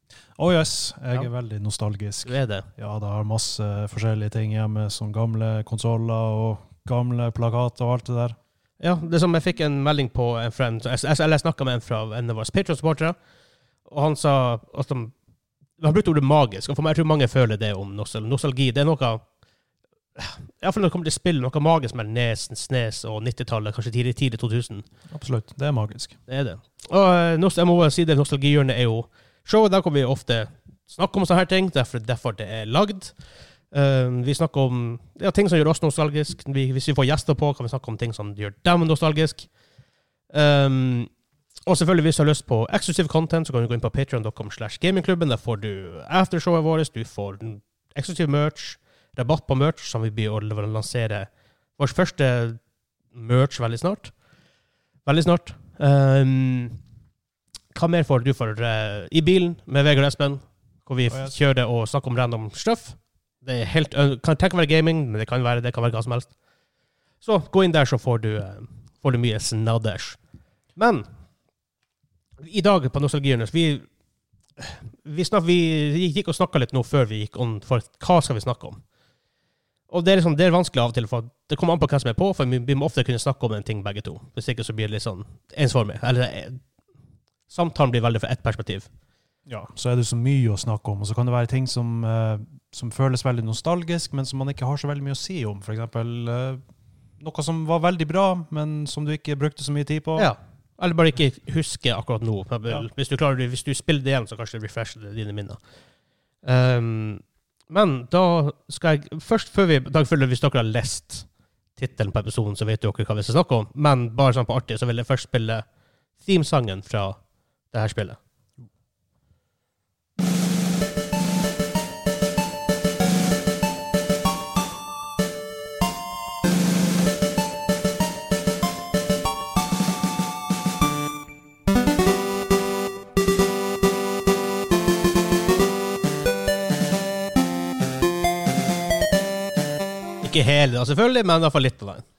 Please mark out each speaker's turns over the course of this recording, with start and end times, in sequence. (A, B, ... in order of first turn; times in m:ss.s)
0:00.4-0:08.4 A
0:02.2-0:02.7 B
0:08.8-0:13.2 B
0:13.8-0:15.1 B
0:15.8-0:19.2 B
0:20.2-0:24.9 B
0:25.1-0:26.2 A
0:26.3-0:33.2 B
0:33.7-0:39.5 B
0:40.3-0:41.1 B
0:41.7-0:52.6 B
0:53.1-0:54.1 B
0:55.1-0:56.8 B
0:57.7-1:06.3 B
1:01.1-1:01.4 A
1:07.2-1:10.2 B
1:10.8-1:11.1 B
1:12.4-1:13.9 B
1:14.6-1:18.8 B
1:19.9-1:26.6 B
1:27.5-1:28.9 B
1:29.5-1:36.6 A
1:37.2-1:40.3 A
1:40.2-1:45.6 B
1:46.4-1:55.6 B
1:56.2-1:57.2 B
1:57.7-1:58.2 B
2:20.2-2:22.0 B